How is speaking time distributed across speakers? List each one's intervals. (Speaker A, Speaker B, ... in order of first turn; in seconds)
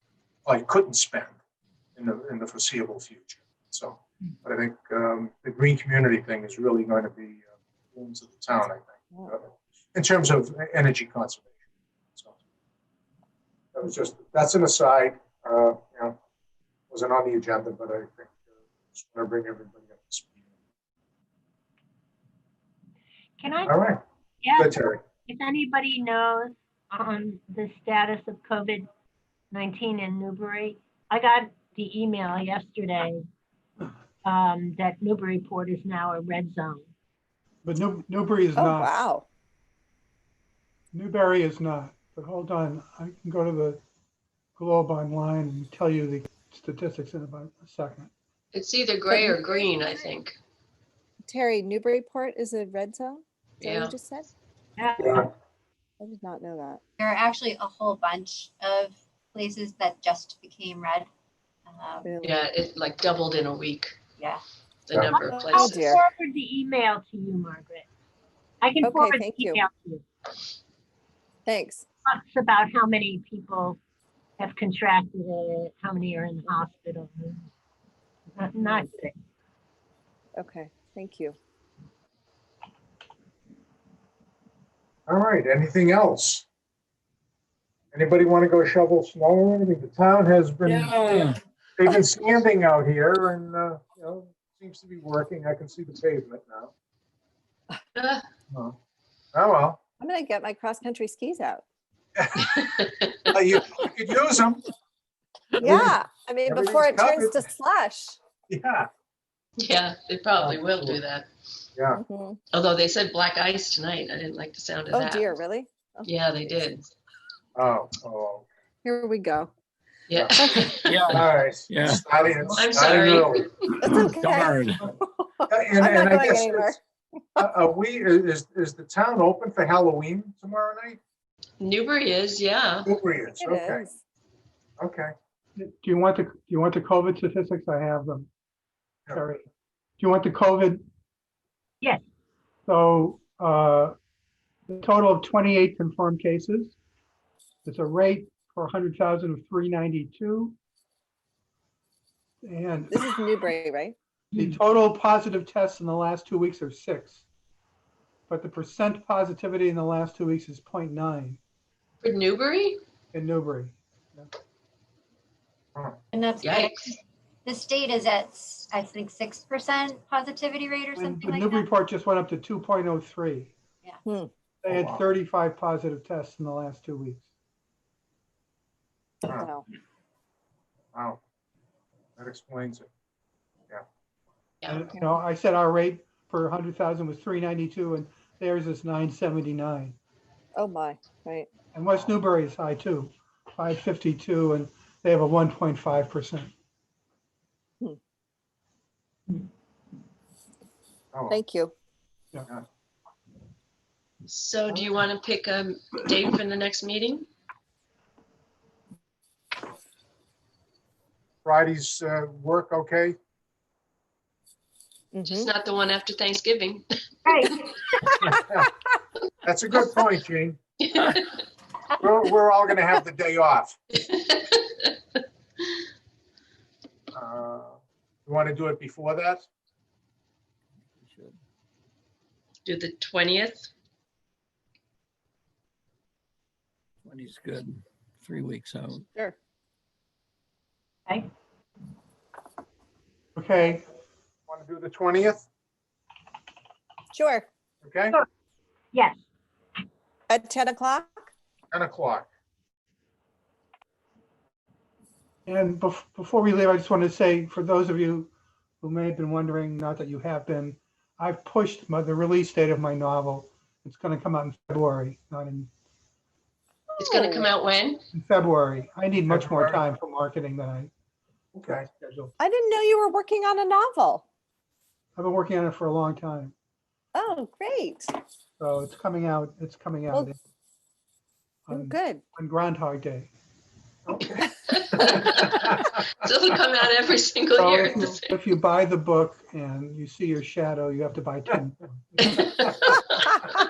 Speaker A: 0.4-1.4, 1.9-11.5, 13.7-16.2, 16.9-18.3, 18.9-20.3, 23.6-24.0, 24.5-25.0, 85.1-86.4, 87.9-91.0, 91.8-96.7, 99.3-99.8, 102.2-104.6, 105.6-107.4, 108.5-108.9, 110.4-111.0, 111.7-112.0, 117.5-118.5, 120.1-120.5, 121.1-123.5, 125.5-126.8, 127.4-131.0, 132.8-133.8, 134.8-135.1, 174.7-175.0, 180.9-181.2, 182.2-182.9, 211.4-213.2, 218.2-218.7, 219.4-220.6, 222.0-223.8, 227.1-229.4, 244.5-245.4, 247.8-248.2, 251.7-252.3, 269.3-269.8, 271.5-271.9, 284.1-285.9
Speaker B: 23.4-23.8, 24.4-24.7, 25.2-28.9, 29.5-33.2, 34.2-36.9, 54.8-55.3, 65.1-67.8, 68.6-70.0, 72.0-73.8, 74.4-77.5, 78.3-79.1, 217.2-217.7
Speaker C: 37.6-39.0, 40.9-43.8, 44.6-48.1, 135.6-138.3, 139.1-139.5, 140.0-140.8, 142.7-143.9, 144.7-146.8, 147.6-150.6, 152.4-153.2, 154.3-157.2, 158.3-161.4, 163.1-164.3, 170.9-173.5, 174.6-177.2, 184.7-189.9, 191.7-196.5, 243.3-243.8, 255.4-265.7, 268.1-270.9, 271.7-272.3, 275.1-276.5, 278.6-280.4, 281.6-283.3, 287.6-292.4
Speaker D: 38.5-39.2, 49.1-49.7, 51.2-54.3, 56.0-56.8, 62.0-62.5, 65.3-66.0, 68.8-69.6, 71.5-71.8, 80.3-81.3, 100.0-101.6, 105.6-108.2, 111.9-112.4, 114.9-116.1, 118.8-119.5, 120.3-120.6, 123.8-126.8, 133.3-134.0, 152.9-153.9, 174.0-174.3, 179.2-179.6, 190.5-191.5, 201.3-201.7, 215.1-215.5, 247.1-247.5, 250.3-251.1, 267.0-267.5, 272.4-274.2, 277.1-278.1, 281.7-282.2
Speaker E: 48.5-50.4, 53.6-53.9, 62.2-63.9, 64.9-65.9, 90.7-91.2, 97.9-98.2, 102.4-103.3, 109.6-111.3, 112.5-115.3, 116.0-116.9, 120.1-121.0, 122.5-123.5, 131.6-132.9, 162.0-162.8, 166.4-166.9, 204.2-207.3, 215.3-216.8, 220.8-221.3, 223.9-224.9, 232.7-233.7, 267.0-268.0, 284.7-288.4, 292.3-293.0
Speaker F: 57.0-61.1, 61.7-62.1, 166.1-171.7
Speaker G: 90.8-91.3, 120.8-122.1, 123.8-124.9, 231.0-231.3, 237.0-239.1